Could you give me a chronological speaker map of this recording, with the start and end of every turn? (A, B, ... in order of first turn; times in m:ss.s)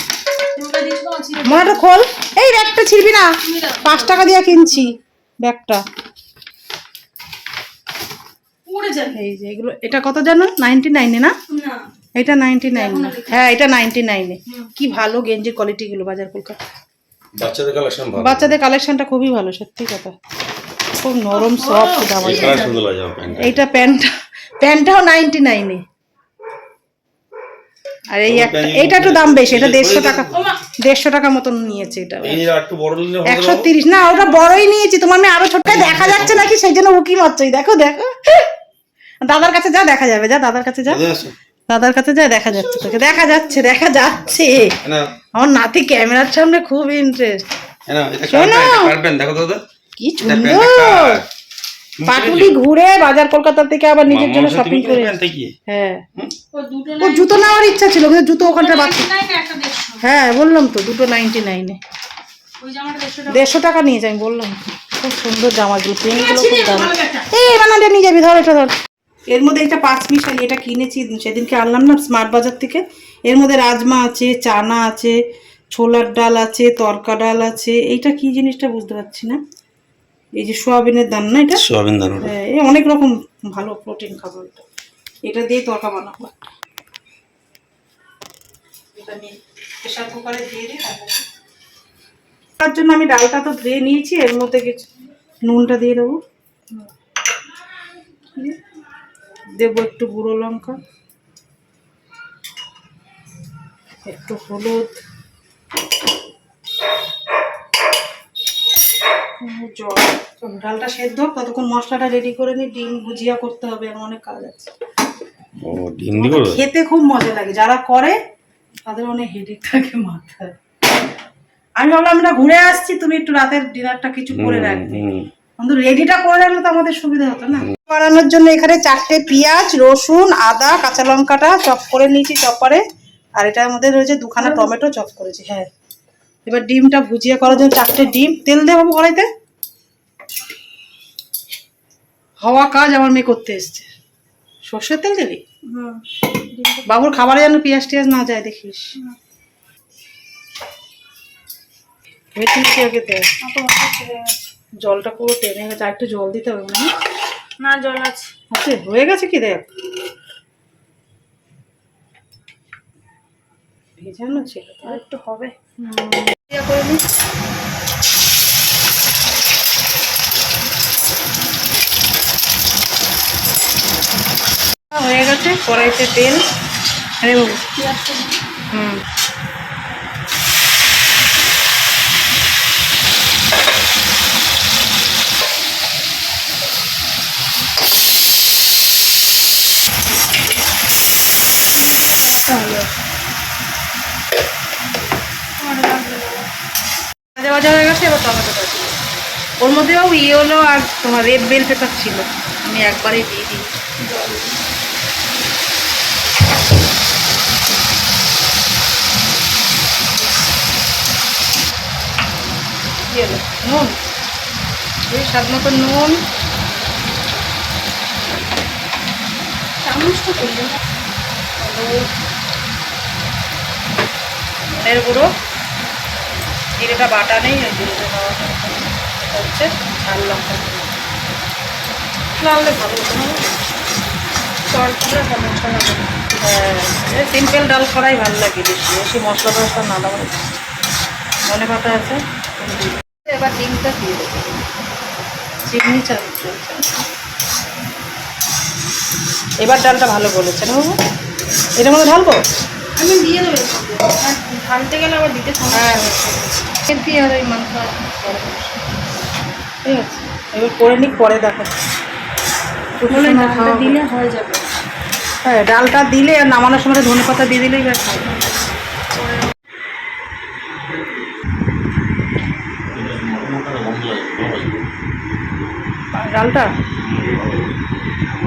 0:00.5-0:01.8 A
0:01.4-0:05.8 B
0:03.4-0:04.9 A
0:08.6-0:09.2 A
0:09.1-0:11.3 B
0:11.5-0:11.9 A
0:12.2-0:16.6 B
0:12.7-0:13.6 A
0:17.3-0:18.6 C
0:18.1-0:20.2 B
0:21.0-0:22.6 B
0:21.3-0:22.8 A
0:22.2-0:23.6 C
0:23.3-0:25.8 B
0:28.1-0:32.5 B
0:28.2-0:30.4 C
0:30.3-0:30.6 A
0:32.2-0:33.7 C
0:33.2-0:38.5 B
0:33.9-0:34.7 A
0:35.7-0:36.5 C
0:39.2-0:41.0 B
0:40.9-0:41.3 C
0:41.7-0:44.8 B
0:42.9-0:43.4 A
0:44.8-0:45.1 C
0:45.3-0:47.4 B
0:47.9-0:49.6 C
0:48.3-0:48.9 B
0:50.0-0:51.2 B
0:50.2-0:51.2 C
0:52.0-0:52.6 C
0:52.0-0:56.0 B
0:54.0-0:55.5 C
0:56.5-0:57.8 A
0:57.0-0:59.1 B
0:58.4-1:00.0 A
1:00.0-1:01.8 B
1:02.6-1:03.6 A
1:03.3-1:08.7 B
1:06.1-1:07.3 A
1:09.3-1:15.2 B
1:15.8-1:19.4 B
1:20.4-1:21.6 B
1:21.5-1:22.3 C
1:22.2-1:24.6 B
1:25.2-1:26.3 B
1:28.9-1:31.2 B
1:32.6-1:34.8 B
1:35.4-1:36.2 B
1:39.6-1:40.8 B
1:44.0-1:44.9 B
1:49.4-1:54.7 B
1:55.6-1:56.6 C
1:56.2-1:58.2 B
1:58.9-2:00.5 B
2:01.8-2:05.0 B
2:04.3-2:05.3 C
2:05.6-2:12.8 B
2:13.4-2:15.7 B
2:14.4-2:14.7 A
2:16.4-2:19.3 B
2:17.5-2:18.1 A
2:22.4-2:23.9 B
2:24.7-2:25.4 B
2:25.7-2:26.9 A
2:26.8-2:28.9 B
2:32.3-2:33.3 B
2:33.4-2:34.4 A
2:34.8-2:36.9 B
2:37.6-2:38.3 A
2:38.5-2:39.6 B
2:44.0-2:45.0 B
2:44.8-2:46.2 A
2:46.3-2:47.0 B
2:54.9-2:56.4 B
2:57.2-2:57.6 B
2:57.7-2:58.3 A
2:58.7-2:59.0 B
3:11.7-3:13.0 A
3:15.6-3:16.4 A
3:17.3-3:19.0 B
3:19.6-3:23.6 B
3:24.0-3:24.6 A
3:33.1-3:34.0 B
3:35.1-3:36.2 B
3:39.8-3:40.8 A
3:41.6-3:42.0 B
3:44.8-3:45.3 B
3:46.8-3:50.9 B
3:52.4-3:53.5 B
3:54.7-3:56.1 A
3:56.4-4:00.4 B
4:01.4-4:04.6 B
4:05.6-4:06.9 B
4:09.6-4:11.0 B
4:11.8-4:12.4 B
4:13.0-4:16.4 A
4:15.7-4:16.2 B
4:16.8-4:18.8 B
4:19.8-4:21.8 B
4:23.0-4:24.0 B
4:23.1-4:24.7 A
4:25.4-4:28.4 B
4:32.9-4:34.8 C
4:36.2-4:36.7 B
4:37.0-4:37.7 C